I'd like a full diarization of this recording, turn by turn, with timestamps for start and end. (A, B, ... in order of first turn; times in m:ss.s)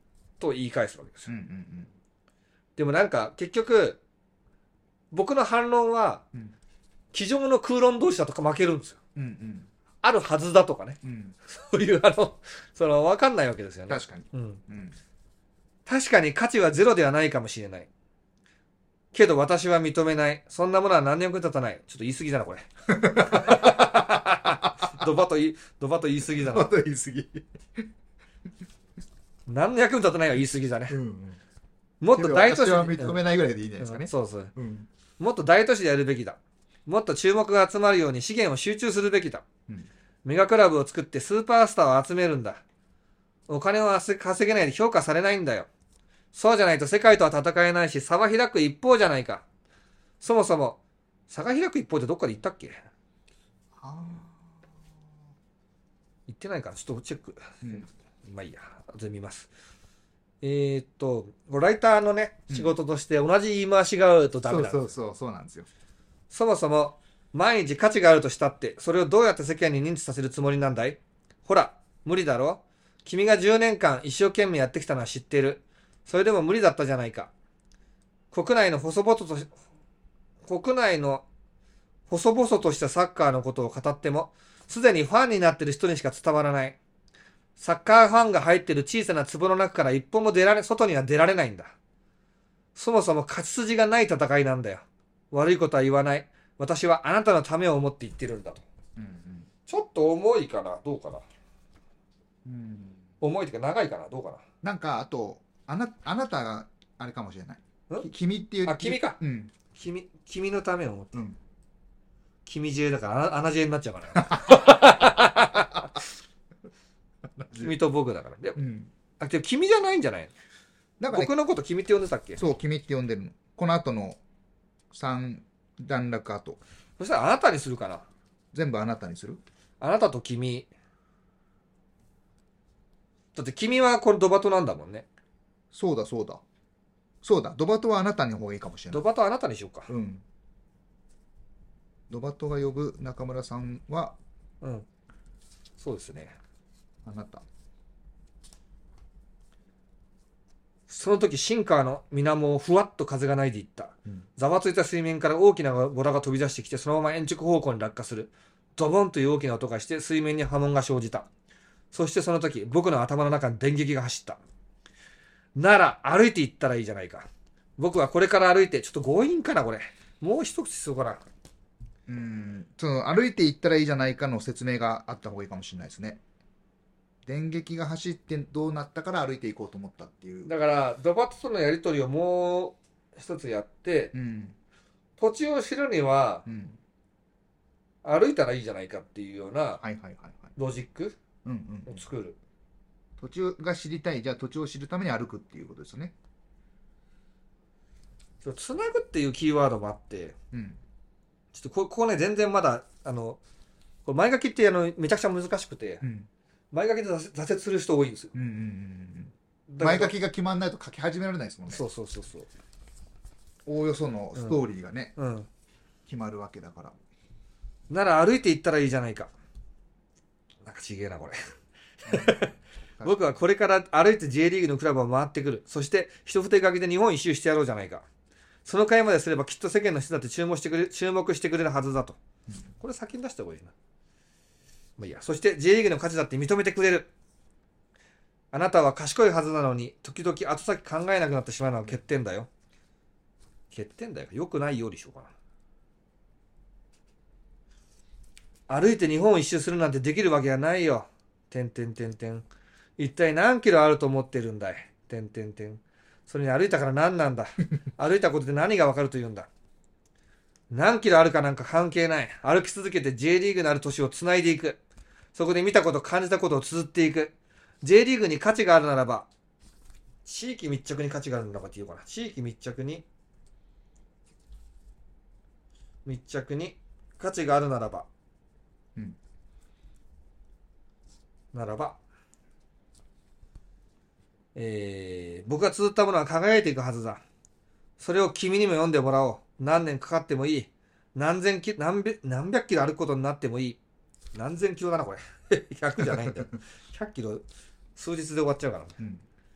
0:00.4-0:01.3 A
0:01.3-0:01.9 B
0:02.8-0:04.0 A
0:05.1-0:06.2 A
0:07.1-0:09.0 A
0:09.1-0:09.7 B
0:10.0-0:14.6 A
0:11.0-0:11.3 B
0:13.9-0:15.0 B
0:15.8-0:17.9 A
0:19.1-0:26.7 A
0:22.9-0:24.6 B
0:26.3-0:27.9 B
0:29.5-0:31.0 A
0:30.9-0:31.4 B
0:32.0-0:33.2 A
0:32.1-0:34.9 B
0:33.8-0:34.5 A
0:35.2-0:39.4 A
0:40.2-0:42.6 A
0:43.5-0:45.7 A
0:46.3-0:49.4 A
0:50.2-0:52.7 A
0:53.7-0:54.7 B
0:56.3-0:59.5 A
0:57.6-0:57.9 B
1:00.4-1:04.9 A
1:02.5-1:02.7 B
1:04.4-1:05.7 B
1:06.3-1:17.3 A
1:18.3-1:19.5 A
1:20.4-1:21.2 A
1:22.1-1:26.8 A
1:27.6-1:31.7 A
1:32.8-1:38.6 A
1:39.0-1:39.5 B
1:39.7-1:41.2 A
1:42.4-1:43.0 B
1:43.2-1:44.4 A
1:44.6-1:49.5 B
1:48.6-1:49.2 A
1:49.7-1:51.2 A
1:52.4-1:55.9 A
1:54.2-1:54.9 B
1:57.4-1:57.7 B
1:57.6-1:58.6 A
1:58.6-1:58.9 B
1:59.2-2:00.3 A
2:01.0-2:01.3 B
2:01.1-2:02.4 A
2:02.4-2:04.2 B
2:04.9-2:06.6 B
2:07.0-2:08.0 A
2:08.5-2:09.4 B
2:09.8-2:10.7 A
2:13.3-2:15.0 A
2:15.7-2:16.4 B
2:17.2-2:19.0 B
2:18.9-2:19.9 A
2:19.9-2:20.2 B
2:22.1-2:24.2 B
2:24.6-2:24.8 A
2:25.8-2:26.3 A
2:27.0-2:27.4 B
2:30.9-2:41.3 A
2:41.9-2:44.4 A
2:45.5-2:51.2 A
2:52.1-2:56.2 B
2:57.2-3:00.5 B
3:00.4-3:04.1 A
3:04.1-3:04.5 B
3:05.2-3:06.4 A
3:06.4-3:06.8 B
3:08.0-3:09.8 A
3:09.8-3:10.5 B
3:10.6-3:11.2 A
3:11.4-3:12.0 B
3:11.8-3:12.4 A
3:13.2-3:16.1 B
3:18.4-3:20.4 A
3:20.5-3:20.8 B
3:21.5-3:23.4 A
3:24.0-3:26.0 A
3:26.0-3:26.3 B
3:26.7-3:28.3 A
3:28.3-3:31.8 B
3:29.7-3:30.1 A
3:31.7-3:32.5 A
3:33.6-3:35.1 B
3:35.2-3:35.5 A
3:36.0-3:37.0 B
3:37.9-3:39.3 A
3:40.6-3:41.4 A
3:42.0-3:48.0 A
3:42.0-3:43.4 B
3:48.6-3:52.2 A
3:52.8-3:53.7 A
3:55.0-3:57.1 A
3:58.5-4:02.5 A
4:03.7-4:05.3 A
4:08.7-4:12.4 A
4:13.0-4:19.5 A
4:20.7-4:24.8 A
4:25.3-4:29.3 A
4:30.2-4:33.0 A
4:36.0-4:38.1 A
4:41.5-4:42.0 A
4:44.5-4:47.2 A
4:48.0-4:53.8 A
4:54.3-4:57.4 A
4:58.0-4:59.0 A